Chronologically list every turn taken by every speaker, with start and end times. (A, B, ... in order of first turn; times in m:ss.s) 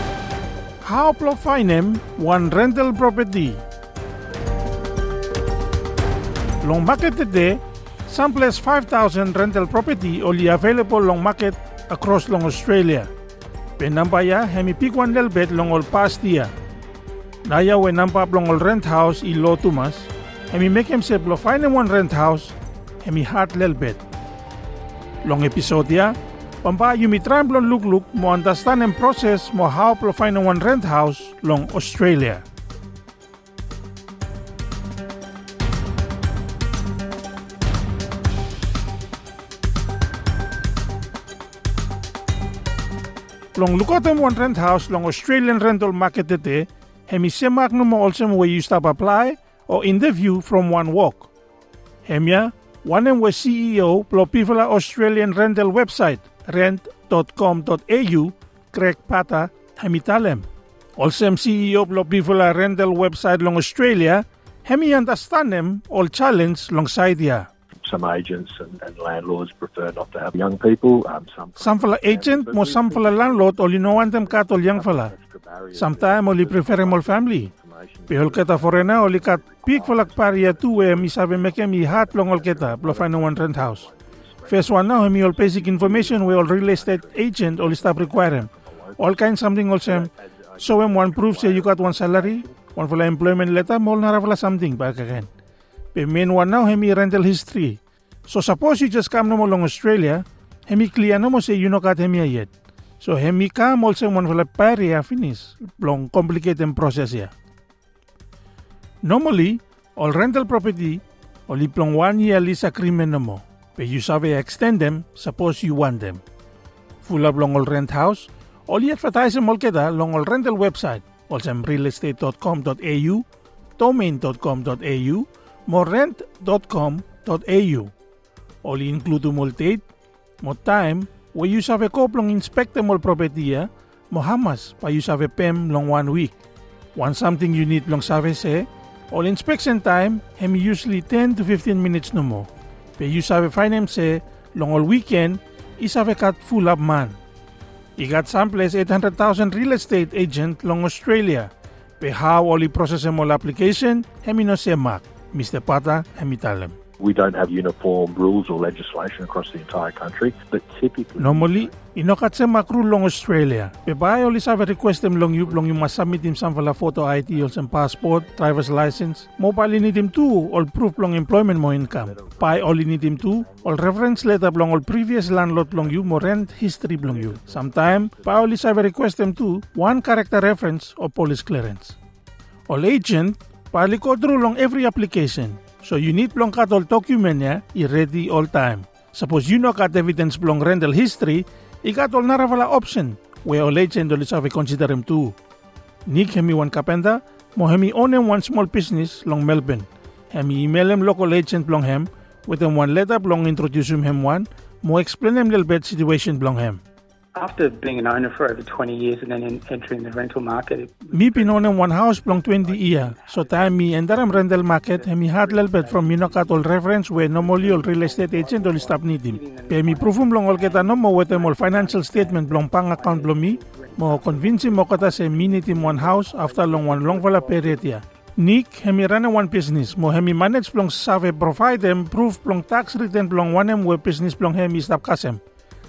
0:00.8-0:03.6 A
0:06.6-0:13.1 A
0:13.8-0:16.5 A
0:17.4-0:24.0 A
0:25.2-0:32.4 A
0:43.6-0:51.3 A
0:52.0-1:00.5 A
1:01.0-1:07.5 A
1:07.8-1:29.2 B
1:11.6-1:15.1 A
1:15.7-1:17.5 A
1:18.1-1:23.9 A
1:24.5-1:35.3 A
1:29.8-1:32.6 B
1:35.9-1:42.5 A
1:43.0-1:47.3 A
1:49.0-1:56.2 A
1:57.0-2:03.2 A
2:03.8-2:07.9 A
2:08.6-2:09.8 A
2:10.4-2:16.4 A
2:17.0-2:27.2 A
2:28.0-2:36.8 A
2:37.0-2:41.8 B
2:41.2-3:02.0 A
2:45.3-2:48.5 B
2:51.7-2:54.4 B
2:55.6-2:58.6 B
3:02.7-3:15.4 A
3:16.1-3:26.8 A
3:27.4-3:48.0 C
3:31.1-3:55.4 A